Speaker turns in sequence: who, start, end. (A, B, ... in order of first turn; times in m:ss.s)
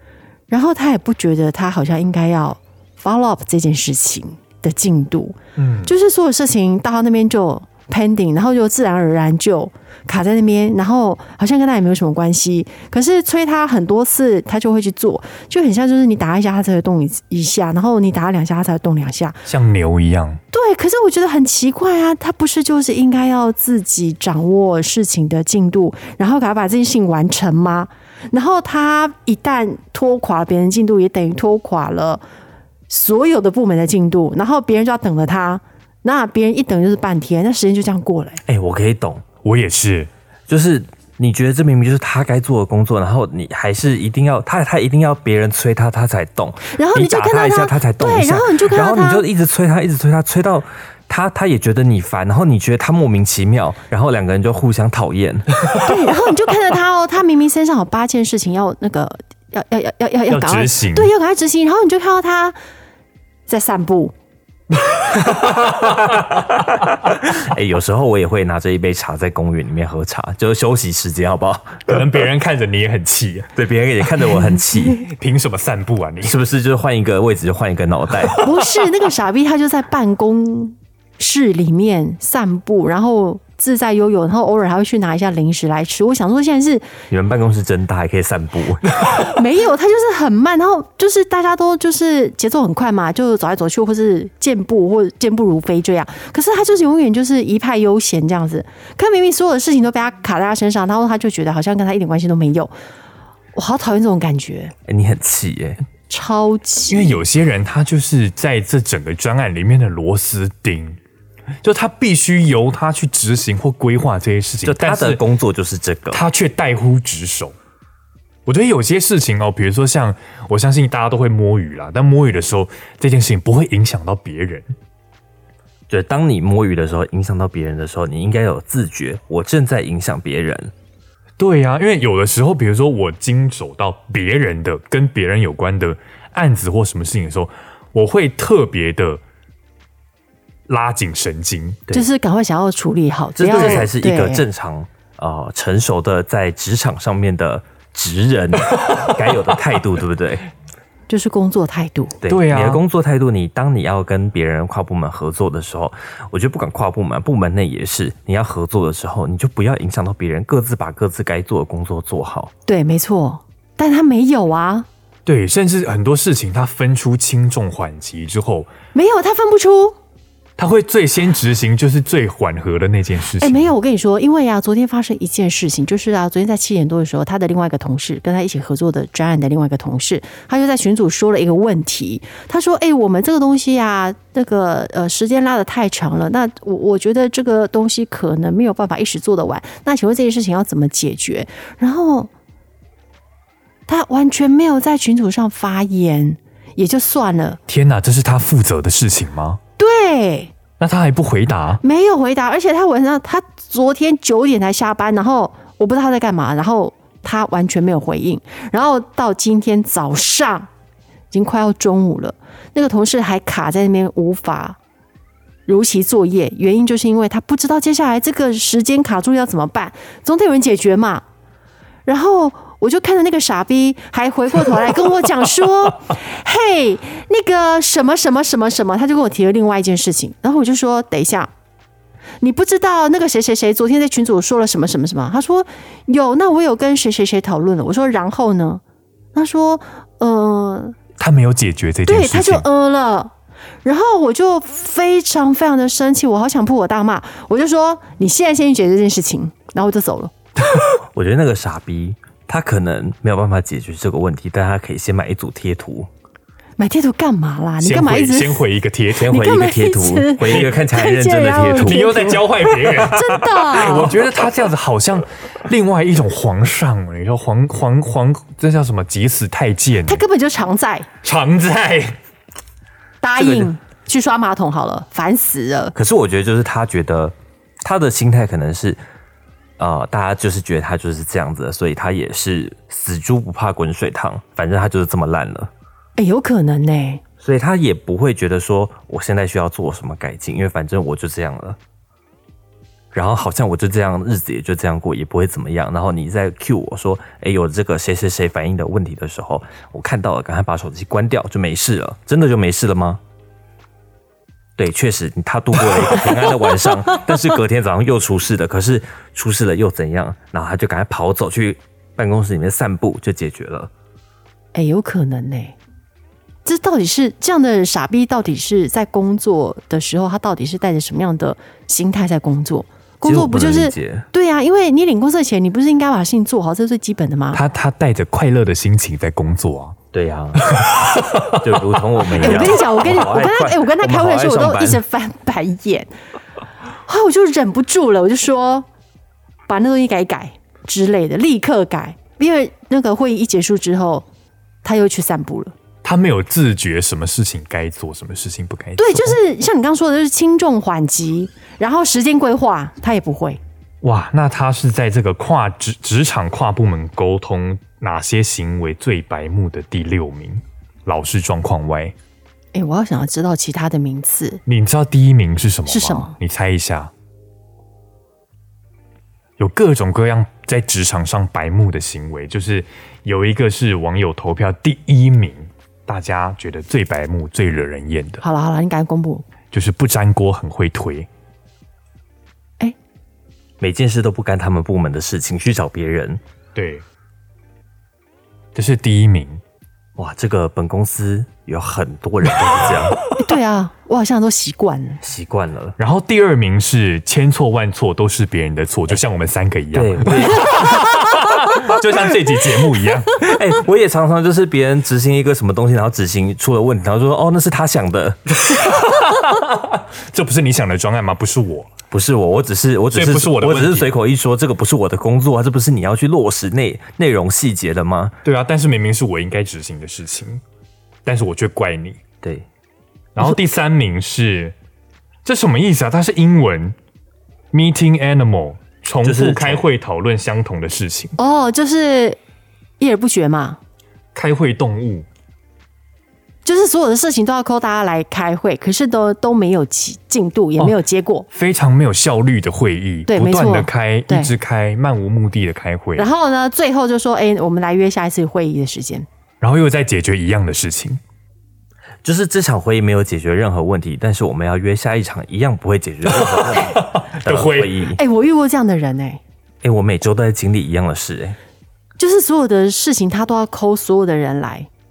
0:00.5-0:19.4 A
0:05.6-0:05.9 B
0:19.4-0:20.4 B
0:20.5-0:32.2 A
0:32.9-0:38.4 A
0:38.4-0:39.2 C
0:39.4-0:40.1 B
0:40.5-0:55.7 C
0:46.7-0:49.2 A
0:55.8-1:02.6 A
1:00.3-1:01.1 B
1:03.5-1:04.1 A
1:04.8-1:06.4 B
1:06.5-1:12.1 C
1:11.9-1:13.5 B
1:13.5-1:15.1 C
1:15.0-1:16.4 B
1:16.2-1:18.4 C
1:18.4-1:26.9 A
1:27.1-1:29.2 C
1:29.2-1:42.7 A
1:43.5-1:44.7 A
1:44.8-1:45.8 C
1:46.1-1:47.2 A
1:46.9-1:51.0 B
1:51.6-1:55.2 B
1:54.6-1:56.2 C
1:56.1-1:57.5 B
1:58.4-2:04.7 B
2:05.9-2:10.7 C
2:11.4-2:19.2 B
2:20.7-2:21.8 B
2:21.9-2:24.4 A
2:23.4-2:30.4 C
2:23.4-2:23.9 B
2:31.1-2:32.2 A
2:32.2-2:42.5 C
2:32.2-2:32.8 B
2:42.7-2:44.9 A
2:45.2-2:48.7 B
2:48.9-2:50.0 A
2:50.6-2:53.7 B
2:53.4-3:12.3 A
3:13.9-3:17.6 A
3:17.7-3:19.6 B
3:19.8-3:20.5 A
3:20.8-3:21.8 B
3:21.8-3:30.7 A
3:31.3-3:34.8 A
3:35.7-3:41.2 A
3:42.0-3:51.5 A
3:52.4-3:58.8 A
3:59.3-4:01.0 A
4:01.2-4:02.6 B
4:02.0-4:03.3 A
4:03.8-4:10.3 A
4:10.8-4:16.1 C
4:16.8-4:18.6 A
4:17.8-4:19.3 B
4:19.1-4:22.1 C
4:19.2-4:24.2 A
4:20.5-4:20.8 B
4:21.8-4:30.2 B
4:30.1-4:31.1 A
4:31.2-4:32.2 B
4:33.2-4:35.9 A
4:35.9-4:39.0 C
4:39.8-4:45.7 C
4:46.2-4:47.2 A
4:47.4-4:51.8 C
4:53.1-5:03.2 C
5:04.8-5:13.9 C
5:14.7-5:15.8 A
5:16.6-5:27.6 A
5:23.2-5:24.3 C
5:27.5-5:30.0 B
5:30.1-5:35.0 C
5:30.5-5:32.9 B
5:32.4-5:36.1 A
5:37.0-5:38.9 A
5:39.7-5:44.2 A
5:44.8-5:45.7 A
5:46.0-5:49.4 B
5:49.0-5:53.6 A
5:54.0-6:02.1 B
6:02.7-6:04.6 A
6:04.6-6:07.1 B
6:05.9-6:06.3 A
6:09.6-6:18.4 B
6:18.4-6:19.4 A
6:19.7-6:21.3 B
6:23.8-6:26.4 C
6:26.7-6:27.0 B
6:28.7-6:29.6 B
6:30.2-6:33.2 C
6:32.5-6:33.4 B
6:33.4-6:35.2 A
6:35.2-6:36.0 C
6:36.0-6:43.4 B
6:39.9-6:41.1 C
6:43.3-6:48.5 C
6:48.6-6:51.9 B
6:52.1-6:58.4 C
6:53.1-6:54.1 B
6:58.4-7:00.6 B
7:01.2-7:02.2 B
7:02.4-7:02.7 C
7:03.3-7:04.7 B
7:05.4-7:06.9 B
7:07.7-7:11.4 B
7:09.2-7:09.8 C
7:11.4-7:12.4 A
7:13.0-7:13.8 A
7:14.3-7:15.2 B
7:16.6-7:21.5 A
7:21.5-7:26.3 B
7:23.3-7:24.5 A
7:26.2-7:29.3 A
7:29.6-7:31.2 B
7:32.2-7:38.2 C
7:36.3-7:38.0 B
7:38.2-7:39.4 A
7:39.8-7:41.6 C
7:42.2-7:44.9 A